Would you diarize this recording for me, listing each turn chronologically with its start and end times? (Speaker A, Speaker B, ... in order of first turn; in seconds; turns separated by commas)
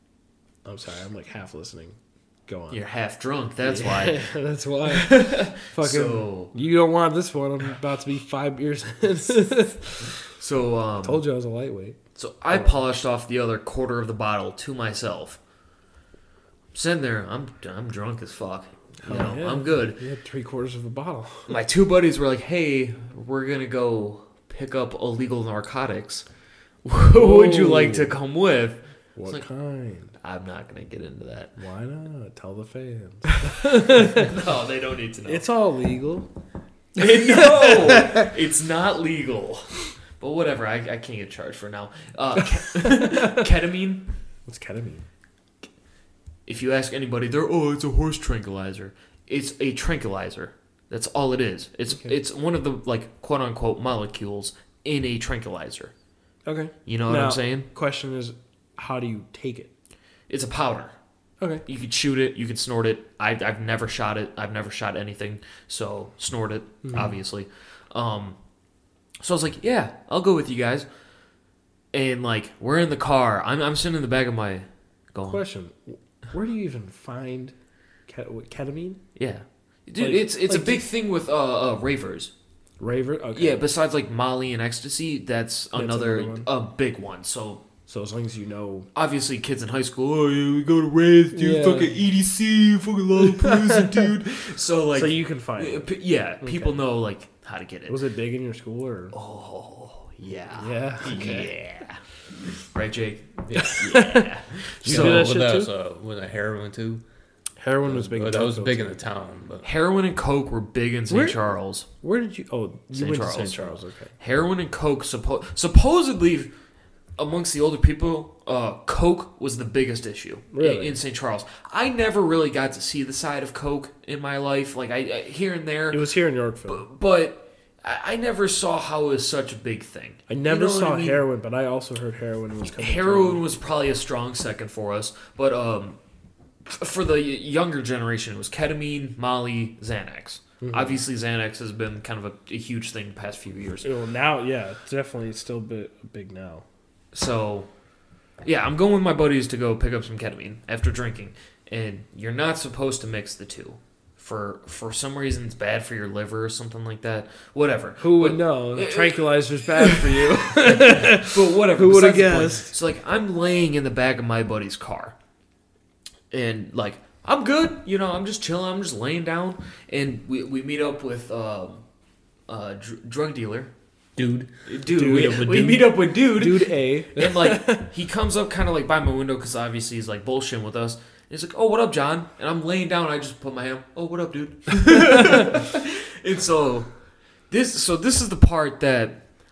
Speaker A: 0.7-2.8, Speaker B: 2.7-4.2, Speaker A: 3.6-10.1, Speaker B: 4.9-6.5, Speaker B: 10.4-11.2, Speaker A: 11.0-12.0, Speaker B: 12.2-15.4, Speaker A: 12.5-12.8, Speaker B: 16.7-20.0, Speaker A: 19.0-21.5, Speaker B: 21.5-26.3, Speaker B: 26.8-29.5, Speaker A: 27.1-28.1, Speaker A: 29.2-30.2, Speaker B: 30.2-31.6, Speaker A: 31.6-34.3, Speaker B: 33.9-35.5, Speaker A: 35.3-36.3, Speaker B: 37.0-44.1, Speaker A: 37.0-38.3, Speaker A: 42.9-43.4, Speaker A: 44.5-45.0, Speaker B: 46.5-55.9, Speaker A: 56.5-59.7, Speaker B: 56.9-57.7, Speaker B: 60.3-61.0, Speaker A: 61.4-61.6, Speaker B: 61.6-68.4, Speaker A: 66.8-67.2, Speaker B: 69.2-70.9, Speaker B: 71.9-75.4, Speaker A: 75.2-77.5, Speaker A: 78.1-79.0, Speaker B: 79.2-82.3, Speaker A: 80.0-80.8, Speaker A: 82.8-83.6, Speaker B: 83.3-87.7, Speaker A: 85.7-86.5, Speaker A: 87.9-88.9, Speaker B: 89.0-98.0, Speaker A: 91.3-92.0, Speaker A: 93.4-94.0, Speaker A: 94.9-95.9, Speaker A: 96.4-96.8, Speaker A: 97.9-99.1, Speaker B: 99.1-102.0, Speaker A: 100.5-101.5, Speaker B: 102.7-105.4, Speaker C: 103.5-104.0, Speaker A: 103.6-104.3, Speaker A: 104.8-105.7, Speaker C: 104.8-107.0, Speaker A: 107.6-108.9, Speaker C: 107.8-109.7, Speaker B: 109.6-111.9, Speaker A: 111.1-111.4, Speaker A: 112.0-114.1, Speaker B: 112.9-116.5, Speaker B: 117.2-126.1, Speaker A: 120.5-121.0, Speaker A: 125.9-126.8, Speaker B: 126.7-131.2, Speaker A: 130.3-133.4, Speaker B: 132.8-136.0, Speaker B: 136.7-143.9, Speaker A: 140.6-141.0, Speaker A: 143.8-146.7, Speaker B: 147.1-147.7, Speaker B: 148.4-165.2, Speaker A: 158.0-162.8, Speaker B: 166.3-171.8, Speaker B: 172.5-173.7, Speaker C: 174.2-176.0, Speaker B: 174.7-186.9, Speaker A: 174.9-177.9, Speaker B: 187.5-189.2